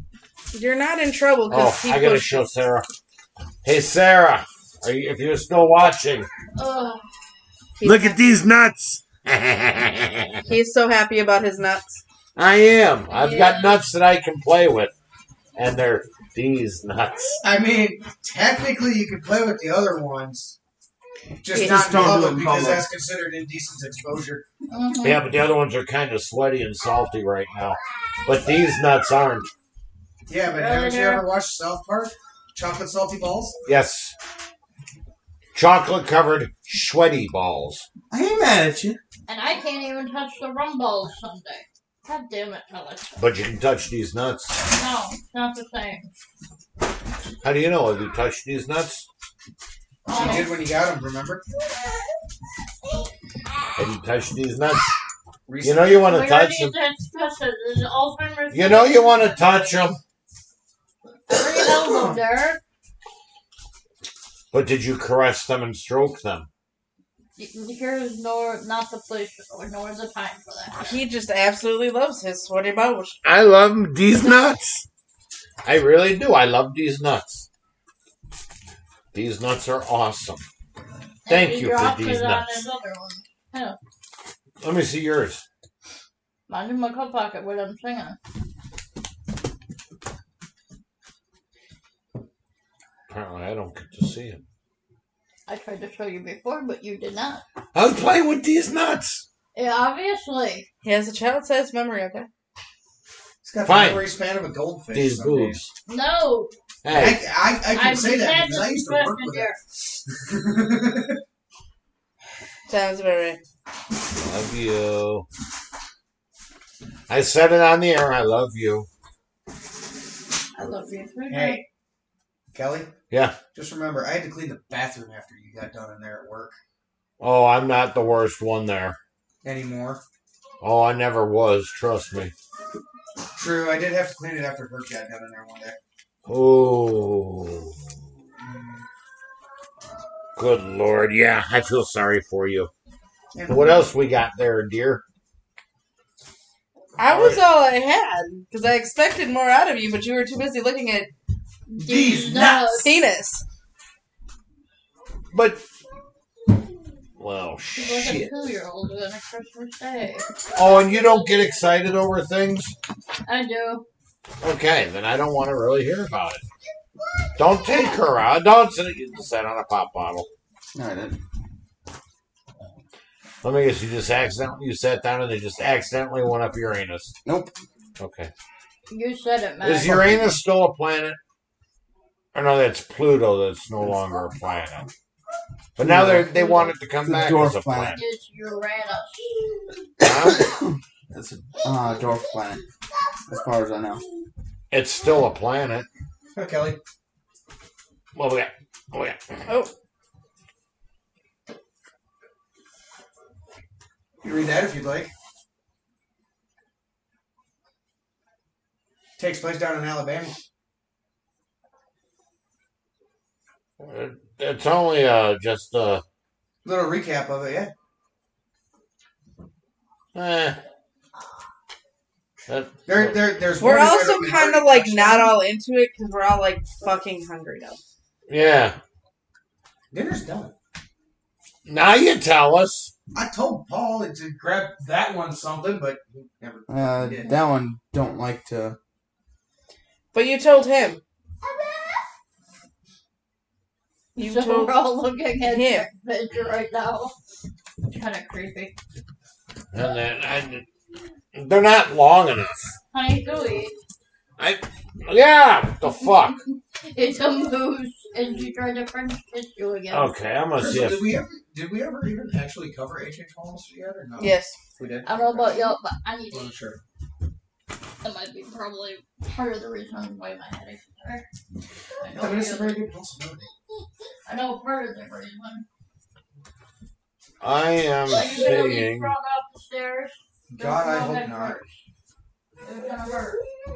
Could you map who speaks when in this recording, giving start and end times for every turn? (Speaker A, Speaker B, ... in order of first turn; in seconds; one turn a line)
Speaker A: 0.5-2.4
Speaker B: 1.5-2.9
Speaker B: 3.6-6.3
Speaker C: 6.5-7.1
Speaker A: 7.8-8.2
Speaker B: 7.8-10.4
Speaker A: 10.4-12.0
Speaker B: 12.3-14.9
Speaker C: 13.1-13.8
Speaker B: 15.5-17.4
Speaker D: 17.4-20.6
Speaker D: 21.4-24.4
Speaker E: 21.5-22.9
Speaker C: 24.7-25.2
Speaker B: 25.0-29.5
Speaker D: 30.3-33.5
Speaker C: 30.5-31.2
Speaker B: 33.6-34.1
Speaker B: 35.5-37.9
Speaker D: 38.1-39.0
Speaker C: 39.3-43.1
Speaker B: 43.2-44.5
Speaker C: 44.7-46.1
Speaker B: 47.4-49.1
Speaker D: 50.0-51.4
Speaker C: 50.1-50.6
Speaker B: 53.8-54.9
Speaker D: 55.5-56.1
Speaker B: 55.6-56.8
Speaker C: 56.0-59.5
Speaker B: 58.5-60.0
Speaker C: 61.3-62.6
Speaker B: 64.5-66.5
Speaker C: 67.4-70.9
Speaker A: 70.8-73.2
Speaker B: 73.2-74.8
Speaker B: 75.6-77.5
Speaker B: 79.1-80.4
Speaker C: 81.2-83.8
Speaker B: 81.3-82.6
Speaker B: 84.6-85.4
Speaker C: 86.5-88.2
Speaker B: 93.1-94.4
Speaker C: 95.5-97.4
Speaker B: 97.7-99.2
Speaker C: 99.5-100.7
Speaker A: 100.8-102.3
Speaker D: 103.4-105.6
Speaker B: 103.6-104.0
Speaker B: 104.9-105.7
Speaker C: 105.8-106.5
Speaker B: 106.8-107.2
Speaker D: 106.9-111.2
Speaker C: 107.7-109.6
Speaker A: 112.7-113.4
Speaker B: 114.1-115.2
Speaker B: 117.1-118.9
Speaker C: 120.5-121.6
Speaker D: 121.3-121.6
Speaker D: 122.5-122.9
Speaker B: 123.1-123.4
Speaker D: 123.5-126.5
Speaker B: 127.2-129.0
Speaker D: 129.4-130.0
Speaker B: 130.6-132.3
Speaker D: 133.3-135.8
Speaker B: 136.2-137.8
Speaker B: 140.3-142.7
Speaker D: 143.3-143.8
Speaker B: 143.5-145.0
Speaker A: 147.0-151.1
Speaker B: 147.1-147.4
Speaker D: 151.8-152.9
Speaker C: 151.8-152.9
Speaker A: 152.8-153.4
Speaker B: 155.3-155.6
Speaker B: 157.2-158.3
Speaker C: 157.8-160.3
Speaker B: 160.5-162.7
Speaker C: 163.2-163.8
Speaker B: 164.4-166.4
Speaker B: 167.3-170.3
Speaker E: 170.7-171.2
Speaker B: 173.4-177.1
Speaker E: 177.2-177.5
Speaker B: 178.0-178.3
Speaker C: 178.9-180.3
Speaker B: 179.6-181.2
Speaker B: 182.3-184.9
Speaker B: 185.8-188.0
Speaker E: 185.8-188.0
Speaker C: 187.9-189.2
Speaker B: 190.0-190.6
Speaker E: 190.0-192.6
Speaker E: 193.3-194.0
Speaker B: 194.7-195.9
Speaker D: 196.3-196.8
Speaker B: 198.1-199.2
Speaker D: 204.2-205.1
Speaker D: 209.2-210.3
Speaker B: 213.8-216.0
Speaker D: 216.6-217.7
Speaker B: 220.1-220.6
Speaker B: 222.5-223.3
Speaker D: 222.8-225.4
Speaker A: 223.6-227.8
Speaker B: 228.3-228.8
Speaker D: 229.9-230.5
Speaker B: 231.7-232.9
Speaker D: 233.1-237.3
Speaker E: 236.7-238.8
Speaker A: 240.1-241.0
Speaker A: 244.2-244.8
Speaker C: 244.2-247.1
Speaker A: 245.4-245.9
Speaker C: 247.9-248.7
Speaker B: 249.7-250.7
Speaker B: 251.3-252.7
Speaker C: 252.9-253.7
Speaker B: 254.4-256.4
Speaker C: 256.8-260.1
Speaker B: 259.9-261.2
Speaker D: 260.6-265.7
Speaker A: 264.2-264.5
Speaker C: 265.0-266.5
Speaker D: 266.3-266.8
Speaker C: 268.0-271.2
Speaker C: 272.0-272.8
Speaker D: 272.1-273.5
Speaker C: 274.2-275.6
Speaker B: 277.4-279.1
Speaker C: 278.1-281.7
Speaker D: 280.5-281.6
Speaker C: 282.6-283.4